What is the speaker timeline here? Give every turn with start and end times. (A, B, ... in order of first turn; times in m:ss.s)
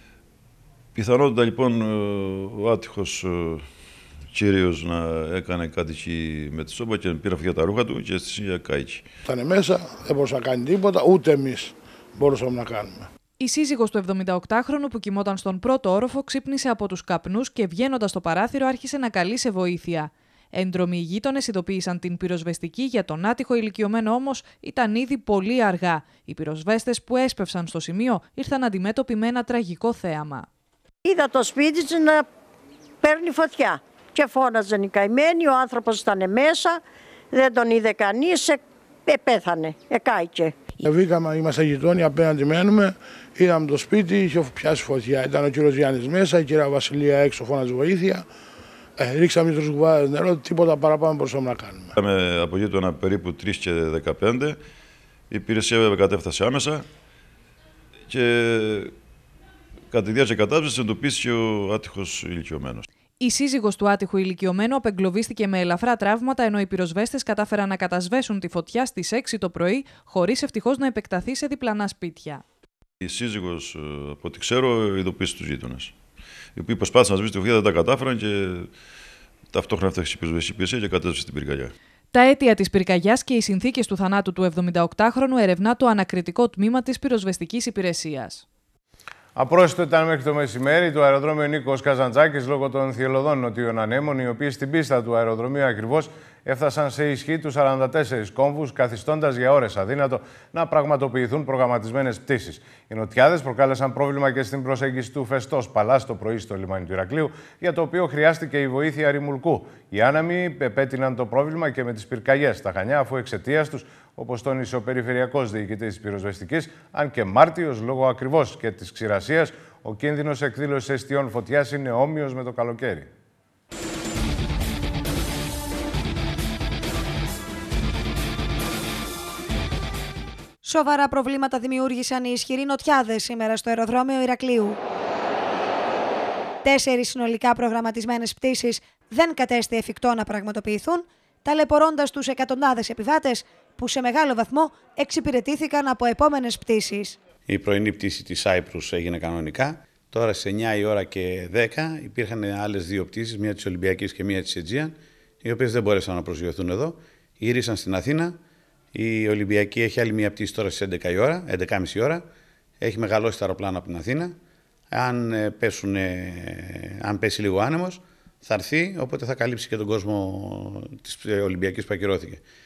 0:01.0-0:03.6 A
0:04.3-0:09.0 A
0:09.3-0:13.1 B
0:13.4-0:30.5 C
0:31.0-0:32.3 D
0:33.0-0:36.8 D
0:37.3-0:40.8 D
0:40.8-0:48.2 B
0:49.0-0:51.9 B
0:52.0-0:54.6 A
0:55.3-0:56.8 A
0:58.1-0:58.9 A
0:59.9-1:02.8 A
1:03.2-1:12.4 C
1:13.0-1:15.9 A
1:16.6-1:18.7 A
1:19.5-1:21.7 A
1:22.1-1:28.4 C
1:29.4-2:03.1 E
2:10.6-2:14.8 F
2:16.6-2:27.2 F
2:27.5-2:38.4 G
2:38.9-2:42.3 G
2:42.8-2:44.4 G
2:44.9-2:52.4 G